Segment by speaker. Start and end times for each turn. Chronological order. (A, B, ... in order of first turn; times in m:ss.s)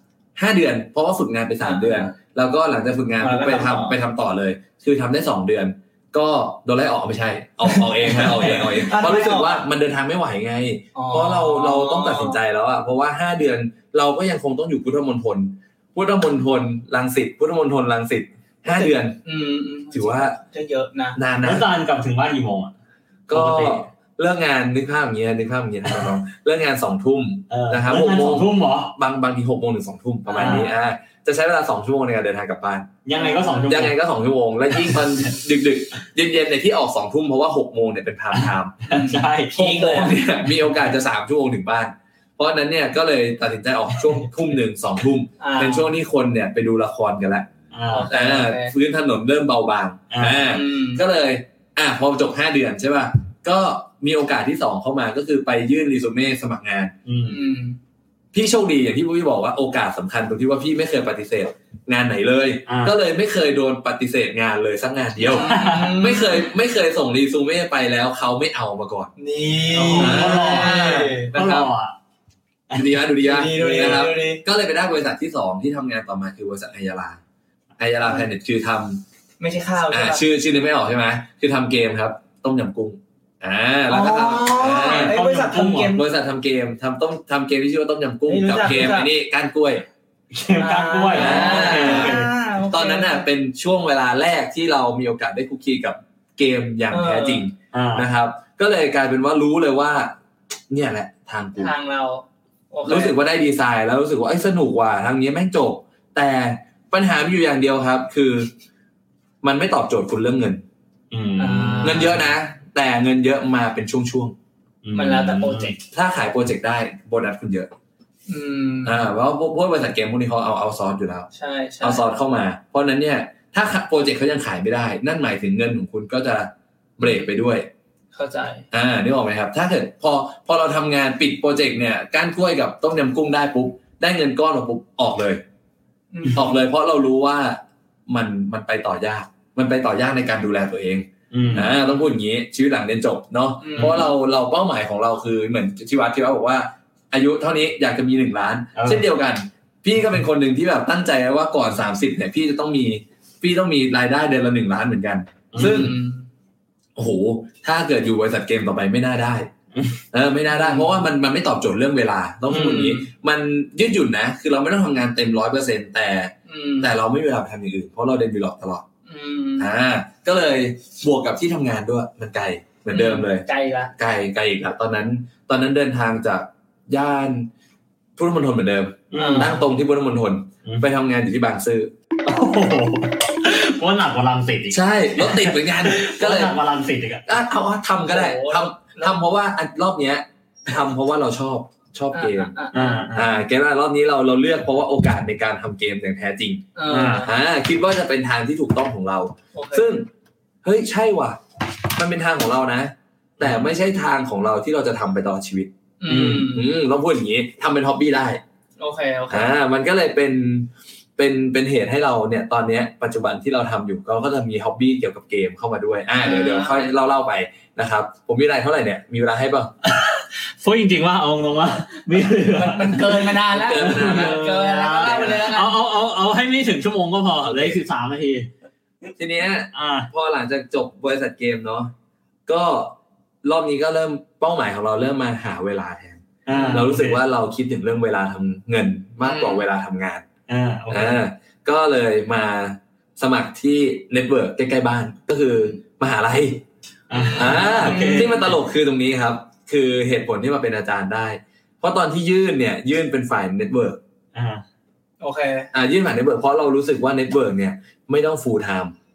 0:00.4-0:19.2 A
0:01.6-0:02.1 B
0:03.2-0:04.0 B
0:07.6-0:09.6 B
0:10.9-0:12.4 B
0:18.6-0:21.2 B
0:19.9-0:20.4 A
0:21.2-0:21.7 A
0:21.4-0:22.7 C
0:23.3-0:33.0 A
0:23.3-0:23.8 C
0:27.5-0:28.9 C
0:30.3-0:30.6 B
0:30.3-0:30.7 C
0:33.0-0:34.0 C
0:33.1-0:33.7 B
0:33.7-0:38.8 A
0:34.8-0:35.3 C
0:38.3-0:40.0 C
0:38.9-0:40.1 B
0:39.5-0:47.5 A
0:45.4-0:45.9 B
0:47.7-0:48.1 C
0:47.9-0:48.7 B
0:48.1-0:56.9 A
0:50.1-0:50.5 C
0:50.4-0:51.0 B
0:57.0-0:57.4 C
0:57.3-0:57.8 B
0:58.3-1:09.1 A
1:02.7-1:03.0 C
1:05.2-1:06.4 B
1:05.3-1:06.0 C
1:09.2-1:11.3 B
1:09.7-1:11.9 C
1:10.0-1:11.7 A
1:12.7-1:13.0 C
1:12.7-1:17.2 A
1:13.2-1:14.4 B
1:17.8-1:19.0 A
1:19.4-1:20.2 B
1:19.9-1:25.2 A
1:23.9-1:26.0 B
1:24.8-1:26.0 C
1:25.9-1:29.9 A
1:28.3-1:29.1 B
1:30.3-1:32.3 C
1:30.6-1:33.2 B
1:31.1-1:40.1 A
1:36.9-1:37.5 B
1:37.7-1:38.1 C
1:40.7-1:41.7 A
1:41.6-1:43.2 B
1:42.8-1:48.5 A
1:49.4-1:50.6 A
1:51.1-1:52.2 C
1:51.4-1:52.2 B
1:51.8-1:54.4 A
1:54.8-1:55.7 C
1:54.9-1:55.8 B
1:55.9-1:57.7 A
1:58.3-1:59.0 B
1:58.8-2:01.3 A
2:01.3-2:02.0 B
2:01.8-2:07.7 A
2:08.1-2:08.6 B
2:08.7-2:15.4 A
2:16.1-2:16.6 B
2:16.3-2:36.0 A
2:21.3-2:21.7 C
2:23.6-2:24.1 B
2:23.8-2:24.0 C
2:28.7-2:29.0 C
2:35.5-2:35.9 C
2:35.6-2:36.2 B
2:37.0-2:39.5 A
2:40.1-2:48.8 A
2:40.5-2:41.0 B
2:42.5-2:43.1 B
2:46.5-2:46.9 B
2:49.1-2:49.7 B
2:49.6-2:57.5 A
2:52.9-2:53.9 B
2:58.2-3:01.9 A
2:59.1-2:59.6 C
2:59.1-2:59.6 B
3:02.2-3:07.3 C
3:04.7-3:06.6 A
3:07.3-3:12.5 A
3:08.1-3:09.2 B
3:12.1-3:13.0 B
3:12.7-3:13.3 C
3:13.1-3:16.6 A
3:16.7-3:17.3 B
3:16.9-3:17.3 C
3:17.2-3:20.1 A
3:19.5-3:20.1 B
3:20.6-3:21.4 A
3:21.9-3:28.4 A
3:23.4-3:23.7 C
3:26.0-3:26.7 B
3:26.1-3:26.5 C
3:28.8-3:29.5 B
3:29.3-3:39.7 A
3:36.2-3:36.9 B
3:39.8-3:48.5 C
3:42.5-3:45.8 B
3:43.5-3:44.4 A
3:45.0-3:45.4 A
3:49.2-3:51.9 A
3:49.7-3:50.1 C
3:52.5-4:00.2 A
3:56.4-3:57.2 C
3:56.5-3:56.8 B
3:59.2-3:59.6 B
4:00.5-4:01.2 C
4:00.9-4:06.6 A
4:07.1-4:08.4 C
4:07.1-4:08.5 B
4:07.3-4:14.0 A
4:14.3-4:14.6 C
4:15.2-4:15.7 B
4:15.7-4:18.9 A